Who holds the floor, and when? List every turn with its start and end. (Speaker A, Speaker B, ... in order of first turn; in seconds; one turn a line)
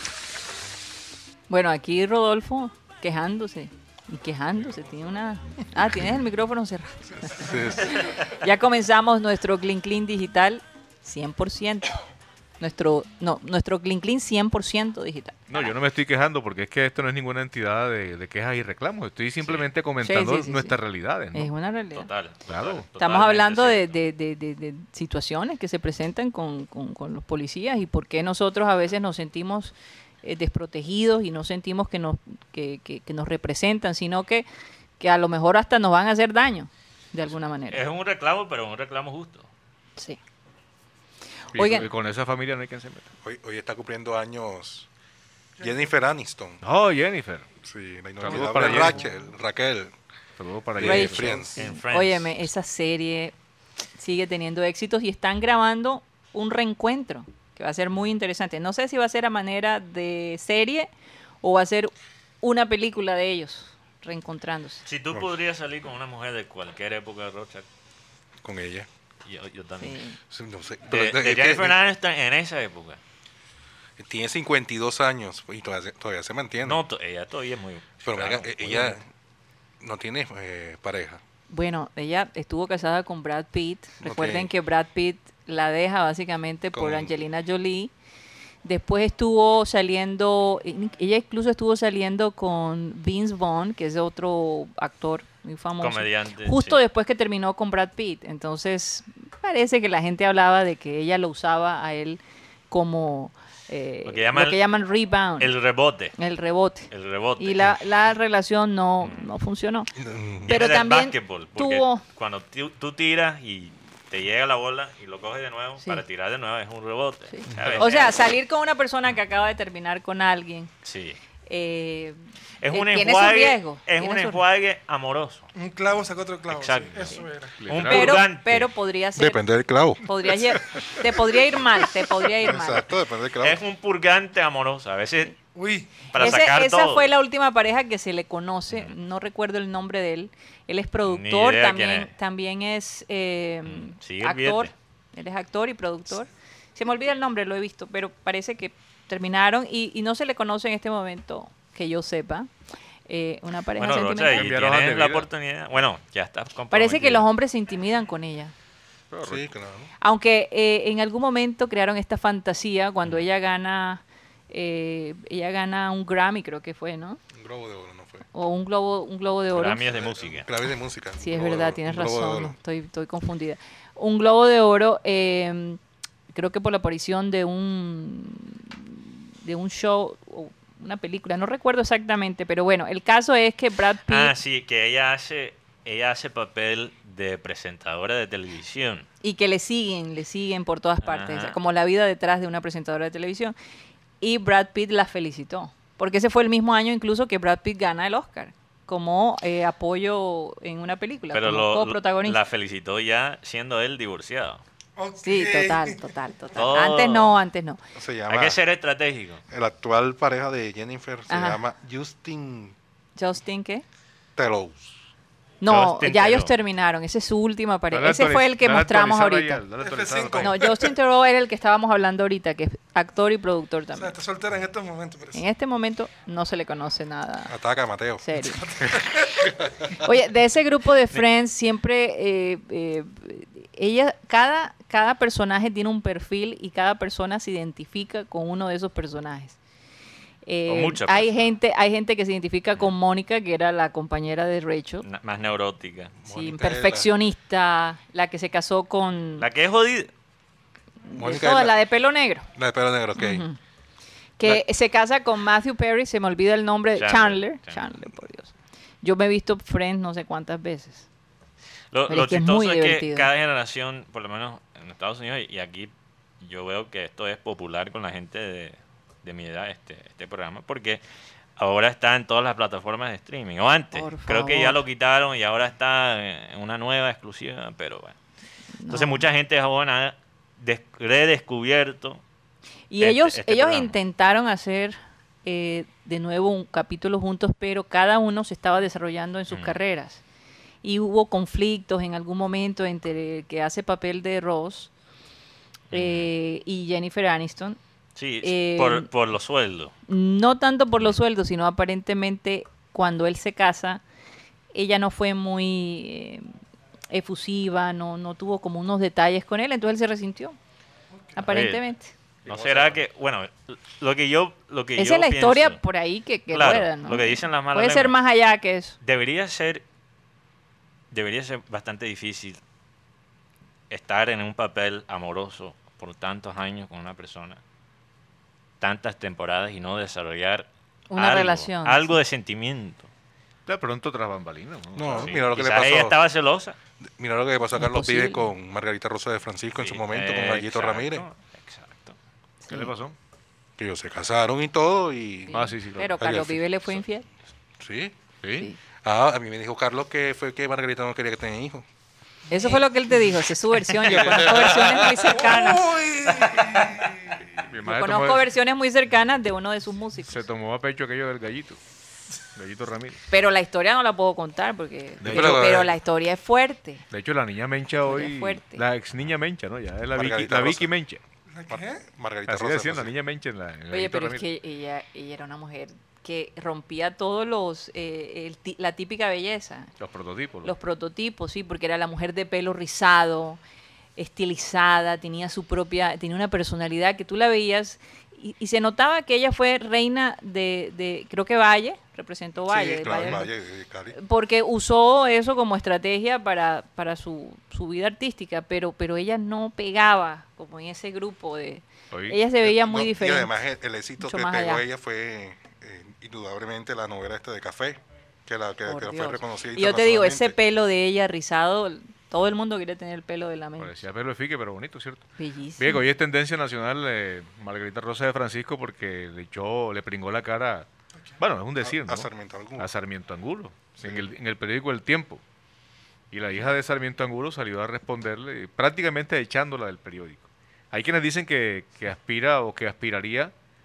Speaker A: 1.5-11.9
Speaker B: 7.3-8.0
Speaker A: 12.6-15.7
Speaker C: 15.5-21.5
Speaker A: 20.0-20.8
Speaker A: 21.3-22.1
Speaker D: 21.9-23.9
Speaker C: 22.5-22.9
Speaker A: 23.0-34.4
Speaker A: 35.0-37.8
Speaker D: 37.7-39.5
Speaker A: 41.5-41.9
Speaker C: 41.5-43.1
Speaker B: 43.2-44.9
Speaker B: 45.6-46.6
Speaker C: 46.6-47.5
Speaker B: 47.6-49.9
Speaker C: 48.2-49.0
Speaker A: 48.5-48.9
Speaker C: 50.4-51.5
Speaker B: 50.8-51.7
Speaker A: 50.8-53.3
Speaker D: 51.6-52.5
Speaker A: 54.0-60.9
Speaker A: 61.4-64.8
Speaker D: 64.8-67.6
Speaker B: 68.4-68.9
Speaker D: 69.2-70.0
Speaker A: 69.8-70.2
Speaker B: 70.3-71.8
Speaker D: 70.9-73.0
Speaker B: 74.0-76.8
Speaker D: 76.6-79.0
Speaker B: 78.0-79.0
Speaker B: 79.8-81.2
Speaker A: 81.5-87.9
Speaker B: 84.0-84.5
Speaker B: 86.7-87.1
Speaker A: 88.6-105.5
Speaker D: 95.8-96.8
Speaker D: 104.0-104.6
Speaker D: 105.4-106.2
Speaker A: 106.2-109.9
Speaker D: 106.9-107.7
Speaker D: 109.0-109.3
Speaker B: 109.9-110.5
Speaker A: 110.5-112.0
Speaker D: 110.5-118.3
Speaker A: 117.3-120.7
Speaker C: 117.6-117.8
Speaker D: 120.8-121.2
Speaker A: 121.5-122.2
Speaker D: 122.6-125.5
Speaker A: 122.7-124.4
Speaker E: 125.5-127.5
Speaker D: 126.5-127.2
Speaker C: 127.6-128.2
Speaker D: 127.7-128.7
Speaker A: 127.8-129.4
Speaker B: 129.2-130.0
Speaker A: 130.0-132.9
Speaker B: 130.6-130.8
Speaker B: 132.3-133.6
Speaker D: 133.4-135.3
Speaker E: 135.5-136.0
Speaker D: 136.1-137.1
Speaker A: 136.1-152.5
Speaker D: 141.1-142.1
Speaker D: 143.6-144.7
Speaker A: 153.1-154.5
Speaker D: 153.8-157.2
Speaker C: 154.3-155.3
Speaker A: 156.7-158.5
Speaker C: 159.1-159.4
Speaker B: 159.2-159.9
Speaker A: 160.0-167.2
Speaker B: 167.3-168.2
Speaker A: 168.3-169.8
Speaker D: 169.5-170.5
Speaker B: 169.9-172.5
Speaker A: 171.2-175.8
Speaker A: 176.3-184.3
Speaker D: 184.1-189.0
Speaker A: 189.2-193.5
Speaker D: 191.0-191.6
Speaker A: 194.2-202.4
Speaker D: 201.3-204.6
Speaker E: 205.0-206.1
Speaker A: 205.2-207.8
Speaker D: 206.5-207.4
Speaker B: 207.9-208.6
Speaker D: 208.3-209.4
Speaker B: 209.5-212.7
Speaker A: 211.3-211.6
Speaker A: 213.2-213.8
Speaker B: 214.3-214.9
Speaker A: 215.6-219.6
Speaker D: 215.6-216.5
Speaker C: 217.9-220.5
Speaker E: 219.8-220.9
Speaker A: 220.4-224.1
Speaker E: 223.9-225.4
Speaker A: 225.3-227.5
Speaker B: 227.5-228.2
Speaker A: 228.2-228.6
Speaker E: 228.4-229.5
Speaker A: 229.9-239.6
Speaker A: 240.4-245.1
Speaker D: 240.7-241.5
Speaker D: 245.0-246.1
Speaker B: 246.2-247.1
Speaker A: 246.3-249.4
Speaker D: 249.4-250.1
Speaker A: 251.1-252.5
Speaker B: 251.2-251.8
Speaker B: 252.6-253.4
Speaker A: 253.2-253.6
Speaker A: 254.4-261.1
Speaker D: 256.9-257.9
Speaker D: 261.9-271.0
Speaker A: 262.1-263.3
Speaker D: 271.6-278.1
Speaker A: 273.9-274.8
Speaker A: 278.8-279.2
Speaker D: 278.9-282.2
Speaker A: 282.9-290.2
Speaker D: 283.0-283.9
Speaker D: 289.5-289.8
Speaker A: 290.8-294.9
Speaker D: 295.9-296.3
Speaker A: 295.9-297.8
Speaker D: 298.1-299.9
Speaker A: 298.4-299.1
Speaker A: 300.1-304.0
Speaker A: 304.7-306.5
Speaker A: 307.1-310.6
Speaker A: 311.3-312.1
Speaker D: 311.5-311.8
Speaker B: 312.4-313.0
Speaker D: 312.4-315.8
Speaker A: 314.9-318.9
Speaker D: 316.5-318.1
Speaker D: 319.0-319.8
Speaker D: 321.1-322.6
Speaker D: 323.9-327.6
Speaker D: 328.8-333.1
Speaker A: 331.1-332.2
Speaker C: 333.6-335.4
Speaker B: 334.9-336.2
Speaker D: 335.1-336.8
Speaker B: 337.0-341.2
Speaker A: 337.8-338.4
Speaker D: 339.8-342.2
Speaker A: 342.6-342.9
Speaker C: 342.7-343.1
Speaker B: 343.8-345.6
Speaker A: 345.5-347.2
Speaker C: 345.5-346.4
Speaker B: 346.2-346.6
Speaker B: 347.8-348.1
Speaker C: 348.4-348.7
Speaker B: 349.0-351.9
Speaker A: 352.5-355.9
Speaker B: 354.1-355.0
Speaker E: 355.2-357.4
Speaker C: 357.6-358.5
Speaker A: 357.8-360.4
Speaker C: 360.2-361.8
Speaker C: 362.5-363.2
Speaker A: 363.3-367.0
Speaker C: 365.2-365.7
Speaker B: 365.2-366.0
Speaker C: 367.1-371.2
Speaker A: 368.0-368.8
Speaker B: 370.1-370.9
Speaker E: 371.5-372.1
Speaker B: 371.7-373.1
Speaker C: 372.5-374.4
Speaker A: 373.9-379.9
Speaker C: 380.0-380.7
Speaker A: 380.6-383.6
Speaker A: 384.2-393.5
Speaker B: 392.7-394.1
Speaker C: 393.1-393.4
Speaker A: 394.1-403.6
Speaker C: 402.1-402.4
Speaker B: 402.6-410.5
Speaker A: 404.2-404.8
Speaker A: 408.9-413.9
Speaker C: 413.8-415.2
Speaker A: 415.4-416.0
Speaker C: 415.8-420.9
Speaker C: 421.4-425.4
Speaker B: 421.8-422.9
Speaker C: 426.3-433.5